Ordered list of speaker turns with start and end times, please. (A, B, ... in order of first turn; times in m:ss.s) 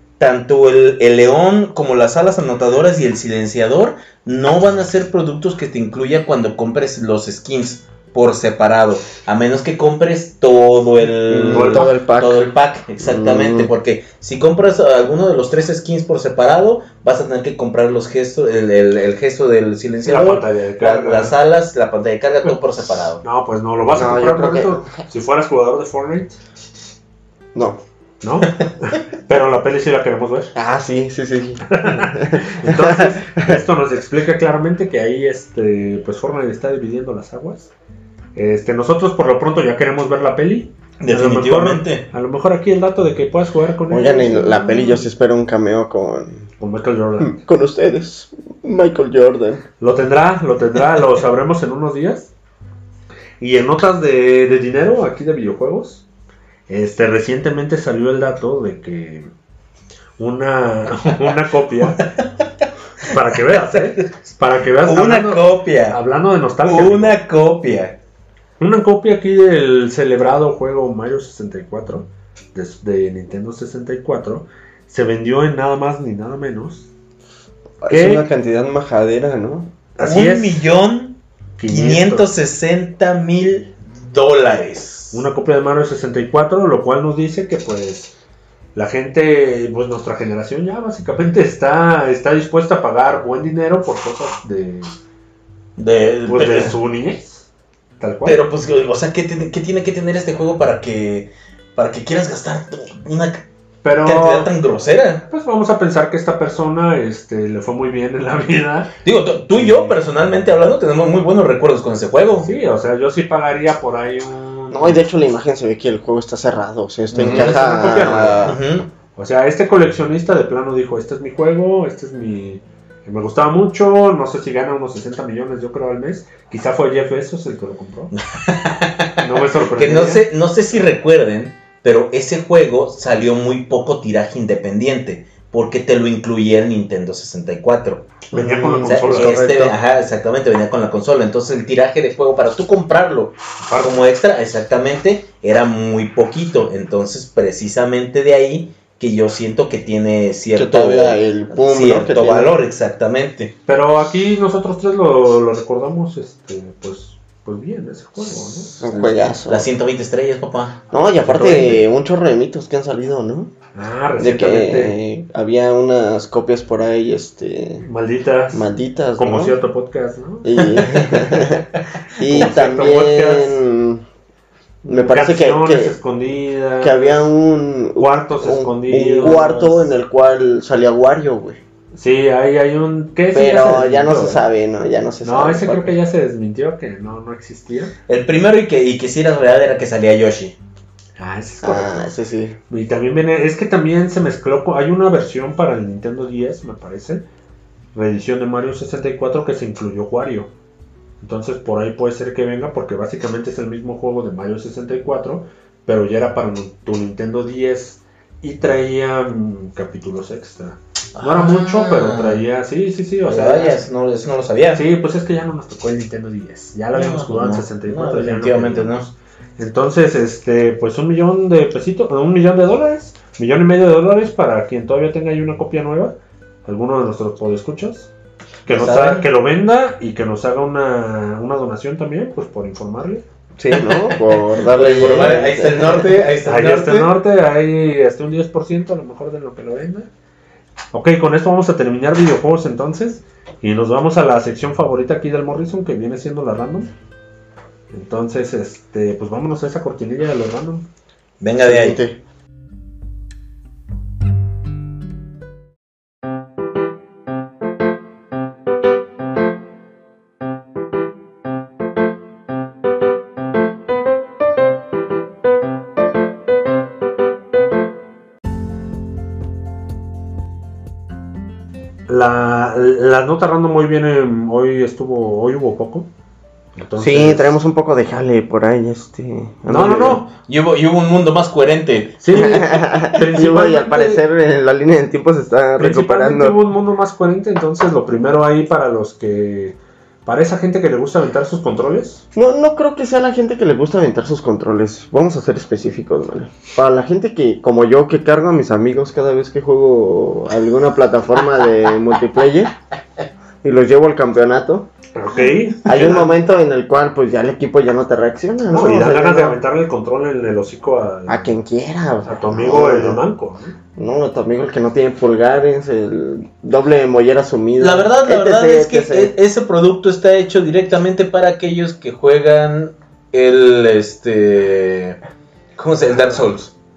0:00.2-0:23.2 A
0:11.3-0:12.5 B
0:11.5-0:11.9 C
0:13.0-0:13.7 B
0:20.0-0:21.3 C
0:23.2-0:26.4 C
0:23.9-0:24.9 B
0:27.5-0:27.8 B
0:28.2-0:30.5 C
0:30.5-0:33.6 B
0:31.7-0:37.7 C
0:38.3-0:45.0 C
0:41.0-0:42.1 A
0:43.9-0:46.4 B
0:46.6-0:47.4 C
0:47.2-0:49.6 B
0:49.8-0:52.3 C
0:53.4-0:56.0 C
0:56.7-0:59.3 C
1:00.2-1:02.0 C
1:03.1-1:07.2 C
1:04.8-1:06.0 A
1:06.6-1:08.0 A
1:08.6-1:16.9 C
1:17.8-1:19.7 B
1:17.9-1:18.2 C
1:20.0-1:20.6 C
1:20.0-1:25.2 A
1:21.6-1:22.3 C
1:25.1-1:28.1 C
1:28.7-1:35.0 C
1:35.8-1:36.7 A
1:36.3-1:37.5 C
1:38.0-1:38.4 C
1:38.2-1:43.4 A
1:43.8-1:44.5 C
1:44.0-1:45.3 A
1:45.3-1:48.9 C
1:49.0-1:52.5 A
1:49.5-1:50.0 C
1:52.4-1:55.0 C
1:54.7-1:58.6 B
1:57.1-1:58.9 A
1:57.1-1:58.5 C
1:59.1-2:08.1 C
2:08.3-2:18.2 A
2:09.2-2:10.2 C
2:18.3-2:19.8 B
2:18.3-2:19.4 C
2:18.8-2:33.5 A
2:23.6-2:24.0 C
2:30.5-2:32.5 B
2:33.7-2:39.4 C
2:38.7-2:39.7 B
2:39.4-2:41.7 A
2:40.9-2:43.5 B
2:41.3-2:41.8 C
2:43.7-2:45.0 C
2:44.2-2:47.8 B
2:47.8-2:50.9 C
2:48.5-2:49.6 B
2:50.4-2:54.0 B
2:50.6-2:51.5 A
2:52.2-2:53.6 C
2:54.8-2:57.3 C
2:54.9-2:55.9 B
2:56.8-3:01.6 B
2:58.0-2:59.9 C
3:01.9-3:04.4 C
3:03.3-3:05.9 B
3:05.2-3:07.9 C
3:08.1-3:10.6 A
3:11.2-3:12.1 C
3:11.6-3:12.6 B
3:12.7-3:17.2 C
3:17.9-3:20.5 C
3:21.2-3:33.8 C
3:31.1-3:32.4 A
3:33.2-3:34.8 A
3:34.7-3:39.0 C
3:36.9-3:39.1 A
3:39.6-3:48.1 C
3:48.6-3:53.2 C
3:48.7-3:49.3 A
3:53.6-3:56.1 B
3:54.7-3:57.1 A
3:56.4-4:00.1 C
4:00.9-4:06.9 C
4:07.9-4:10.9 C
4:11.4-4:12.0 A
4:11.6-4:12.2 B
4:32.1-4:36.1 C
4:36.7-4:37.6 C
4:37.0-4:40.2 B
4:39.7-4:40.3 C
4:40.4-4:42.2 A
4:42.2-4:44.2 C
4:42.3-4:46.6 B
4:45.8-4:52.2 C
4:52.3-5:02.7 B
5:03.6-5:04.9 B
5:05.1-5:06.3 C
5:05.8-5:09.6 B
5:08.7-5:11.6 C
5:11.3-5:13.2 B
5:12.2-5:13.8 C
5:14.0-5:19.3 B
5:17.8-5:25.2 A
5:25.8-5:26.7 A